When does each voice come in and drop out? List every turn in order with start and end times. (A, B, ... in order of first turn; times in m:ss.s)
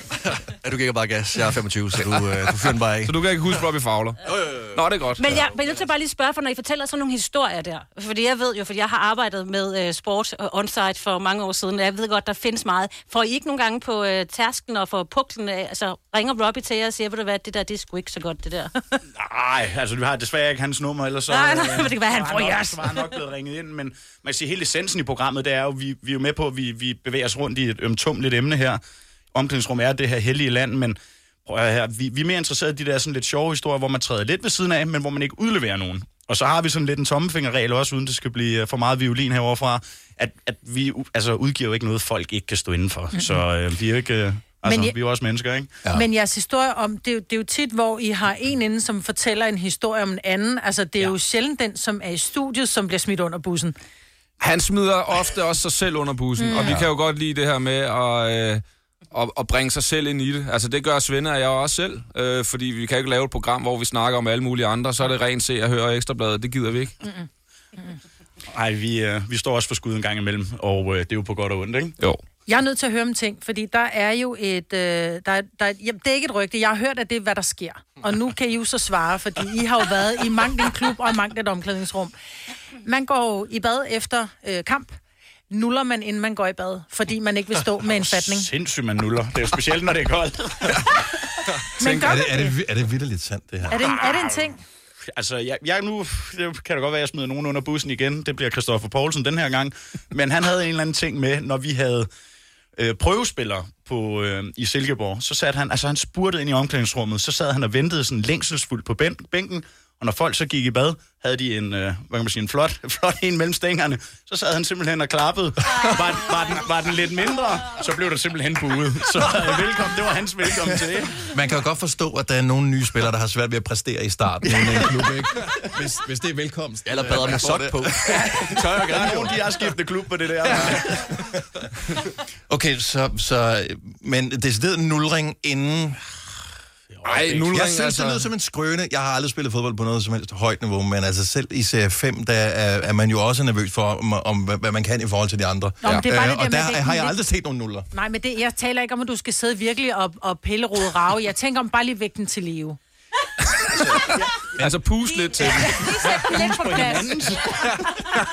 0:00.2-0:03.4 A
0:02.0-0:02.2 B
0:03.0-0:05.4 B
0:05.2-0:19.0 C
0:19.1-0:28.8 D
0:21.3-0:23.1 C
0:29.3-0:45.8 D
0:44.6-0:45.0 E
0:45.9-0:53.8 E
0:54.4-1:06.9 B
0:56.4-0:56.8 E
0:56.6-0:56.9 F
1:08.5-1:12.0 D
1:12.5-1:22.1 E
1:22.8-1:25.0 E
1:25.5-1:28.5 E
1:27.8-1:30.8 D
1:31.8-1:32.6 E
1:31.8-1:32.2 B
1:31.8-1:33.8 F
1:33.7-1:34.6 E
1:33.9-1:34.2 D
1:35.1-1:42.1 D
1:42.8-2:01.3 D
2:01.2-2:08.4 F
2:06.8-2:09.5 A
2:08.1-2:11.1 D
2:10.5-2:11.2 F
2:12.5-2:16.0 F
2:16.9-2:17.6 D
2:17.1-2:18.3 B
2:17.4-2:27.9 F
2:25.8-2:27.2 E
2:27.9-2:32.8 E
2:33.5-2:35.8 B
2:34.0-2:34.3 D
2:35.0-2:37.4 C
2:35.4-2:37.9 D